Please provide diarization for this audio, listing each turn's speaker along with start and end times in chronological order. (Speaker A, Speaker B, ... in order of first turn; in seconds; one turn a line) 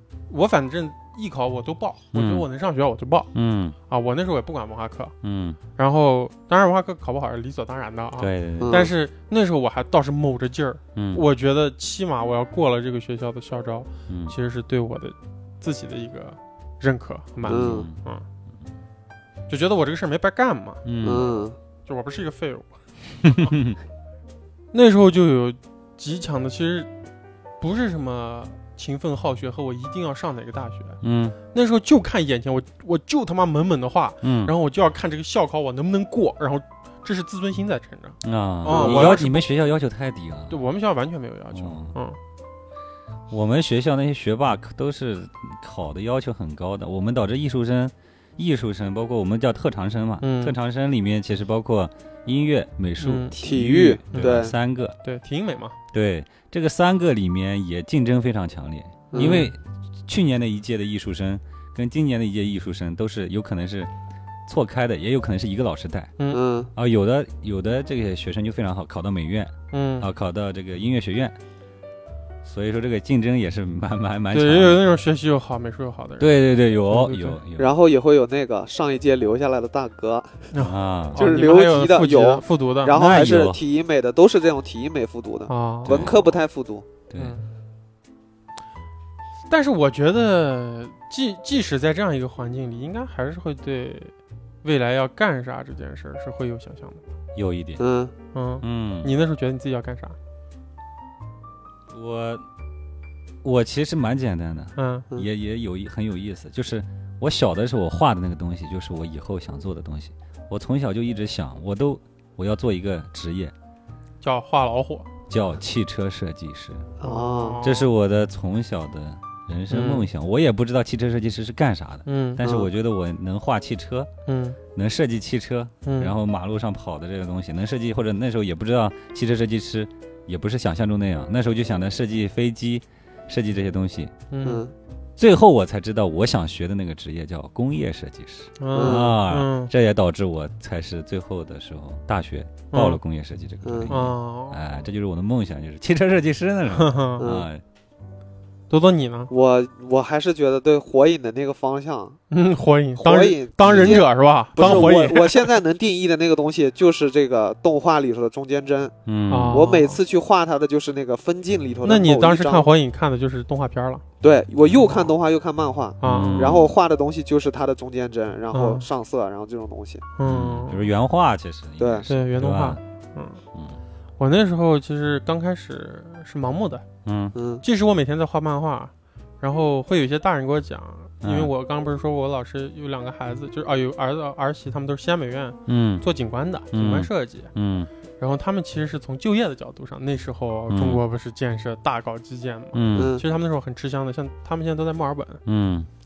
Speaker A: 0.3-3.3
Speaker B: 2.1-2.5
Speaker B: 3.3-3.8
Speaker A: 3.9-5.1
Speaker B: 5.2-5.6
Speaker A: 5.8-18.2
Speaker B: 8.2-8.9
Speaker C: 8.6-8.9
Speaker B: 10.9-11.2
Speaker B: 14.1-14.3
Speaker B: 17.4-17.9
Speaker C: 17.5-17.9
Speaker A: 19.5-23.6
Speaker B: 20.9-21.3
Speaker C: 21.0-21.6
Speaker B: 23.2-23.8
Speaker A: 24.7-26.9
Speaker A: 27.6-31.0
Speaker B: 31.0-31.4
Speaker A: 31.5-39.5
Speaker B: 34.2-34.5
Speaker B: 38.2-40.6
Speaker C: 38.7-39.2
Speaker A: 40.5-42.2
Speaker B: 41.5-42.0
Speaker B: 43.3-55.0
Speaker A: 50.2-50.5
Speaker A: 53.0-53.4
Speaker C: 53.4-54.5
Speaker A: 54.1-54.5
Speaker A: 55.0-55.8
Speaker B: 55.9-63.9
Speaker C: 59.1-59.5
Speaker A: 59.2-59.5
Speaker B: 64.5-66.1
Speaker C: 66.3-66.7
Speaker B: 66.8-71.4
Speaker A: 69.7-70.1
Speaker B: 72.4-74.8
Speaker A: 74.3-76.3
Speaker B: 76.2-77.7
Speaker A: 76.9-77.4
Speaker C: 77.6-80.5
Speaker A: 80.5-83.0
Speaker B: 80.6-81.2
Speaker C: 81.2-86.9
Speaker B: 82.9-83.6
Speaker A: 85.5-86.3
Speaker B: 85.9-86.2
Speaker B: 87.1-87.4
Speaker A: 87.2-87.5
Speaker A: 89.5-97.0
Speaker B: 97.3-97.8
Speaker C: 97.8-98.1
Speaker A: 98.3-100.2
Speaker B: 98.6-99.1
Speaker B: 101.9-102.5
Speaker B: 103.4-113.5
Speaker A: 104.8-105.1
Speaker A: 114.2-115.1
Speaker B: 115.3-116.9
Speaker C: 117.0-117.6
Speaker A: 117.0-117.9
Speaker B: 117.6-124.1
Speaker A: 119.7-120.1
Speaker A: 122.1-122.4
Speaker C: 122.4-122.7
Speaker A: 124.3-124.6
Speaker B: 124.7-134.1
Speaker A: 125.8-126.1
Speaker A: 134.3-134.6
Speaker C: 134.4-134.7
Speaker B: 135.2-147.6
Speaker A: 138.6-139.7
Speaker C: 138.7-139.2
Speaker A: 142.7-143.0
Speaker C: 143.6-143.9
Speaker A: 143.9-144.6
Speaker A: 146.7-147.3
Speaker C: 147.2-147.5
Speaker A: 148.7-149.3
Speaker C: 149.3-152.2
Speaker A: 152.3-155.5
Speaker C: 153.0-158.9
Speaker B: 154.6-154.9
Speaker B: 159.1-159.6
Speaker A: 159.3-160.0
Speaker C: 159.5-162.7
Speaker A: 161.8-164.0
Speaker C: 164.2-170.1
Speaker A: 164.7-165.1
Speaker A: 166.0-166.6
Speaker B: 166.0-166.7
Speaker A: 168.5-168.9
Speaker A: 170.2-170.8
Speaker B: 170.2-172.8
Speaker C: 171.8-172.1
Speaker A: 172.1-173.4
Speaker A: 174.2-176.8
Speaker B: 177.1-177.3
Speaker C: 177.3-177.6
Speaker A: 177.6-187.5
Speaker B: 181.2-181.5
Speaker B: 185.7-186.1
Speaker B: 186.7-187.9
Speaker A: 188.2-195.4
Speaker B: 190.7-191.0
Speaker B: 192.7-193.2
Speaker C: 192.9-193.2
Speaker B: 195.5-195.9